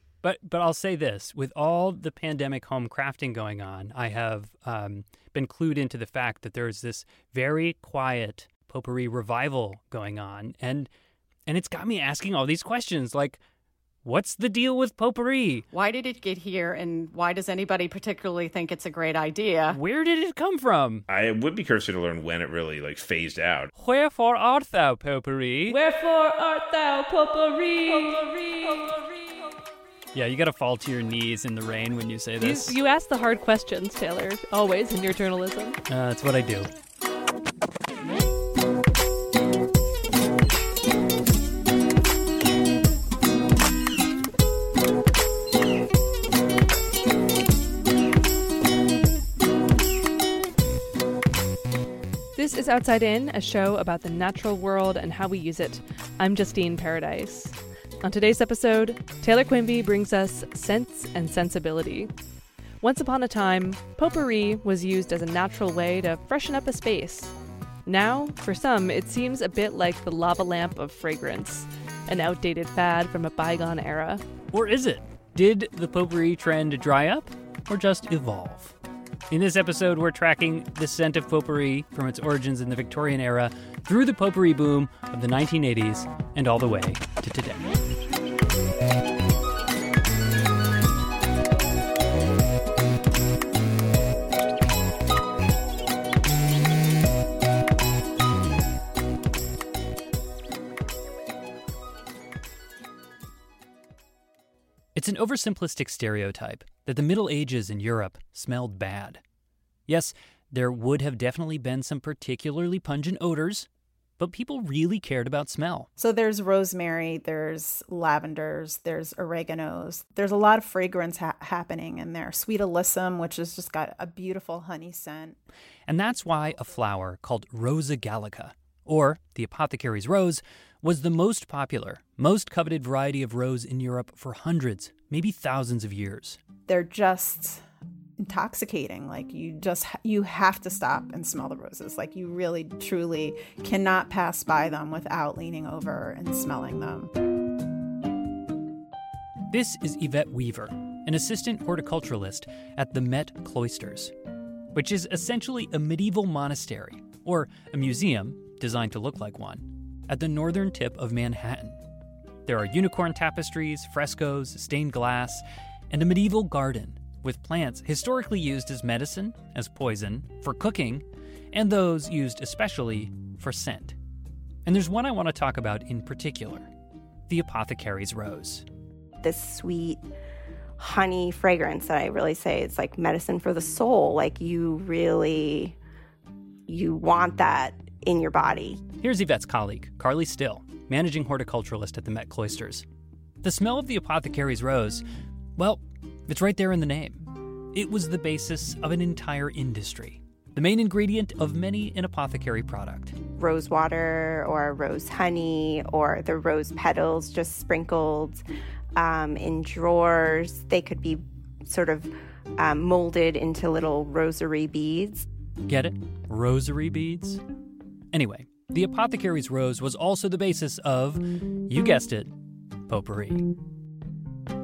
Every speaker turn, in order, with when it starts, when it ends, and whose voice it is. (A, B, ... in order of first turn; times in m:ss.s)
0:00.2-0:10.9 A
0:11.5-0:13.4 A
0:14.0-0:15.6 A
0:15.7-0:19.8 B
0:19.7-0:21.0 A
0:21.1-0:23.7 C
0:23.7-0:25.8 A
0:25.7-0:28.9 D
0:30.1-0:32.8 A
0:32.4-0:35.8 D
0:35.9-0:36.7 A
0:52.4-1:02.1 D
1:02.8-1:07.3 D
1:07.8-1:14.2 D
1:14.5-1:18.8 A
1:19.3-1:27.7 A
1:44.9-1:49.2 A
1:49.9-1:53.7 A
1:54.2-1:55.9 A
1:56.0-2:05.4 E
2:05.9-2:16.4 A
2:16.7-2:17.6 E
2:18.2-2:27.1 E
2:29.5-2:34.1 A
2:34.7-2:41.8 A
2:42.4-2:54.0 A
2:54.6-2:56.7 A
2:57.3-2:58.6 A
2:59.2-3:00.0 F
3:00.8-3:05.8 F
3:06.7-3:08.8 F
3:09.0-3:12.8 A
3:13.4-3:15.0 A
3:15.6-3:17.2 A
3:17.7-3:23.2 A
3:23.4-3:28.4 F
3:28.9-3:35.2 F
3:35.6-3:37.4 A
3:38.1-3:42.3 A
3:42.9-3:43.4 A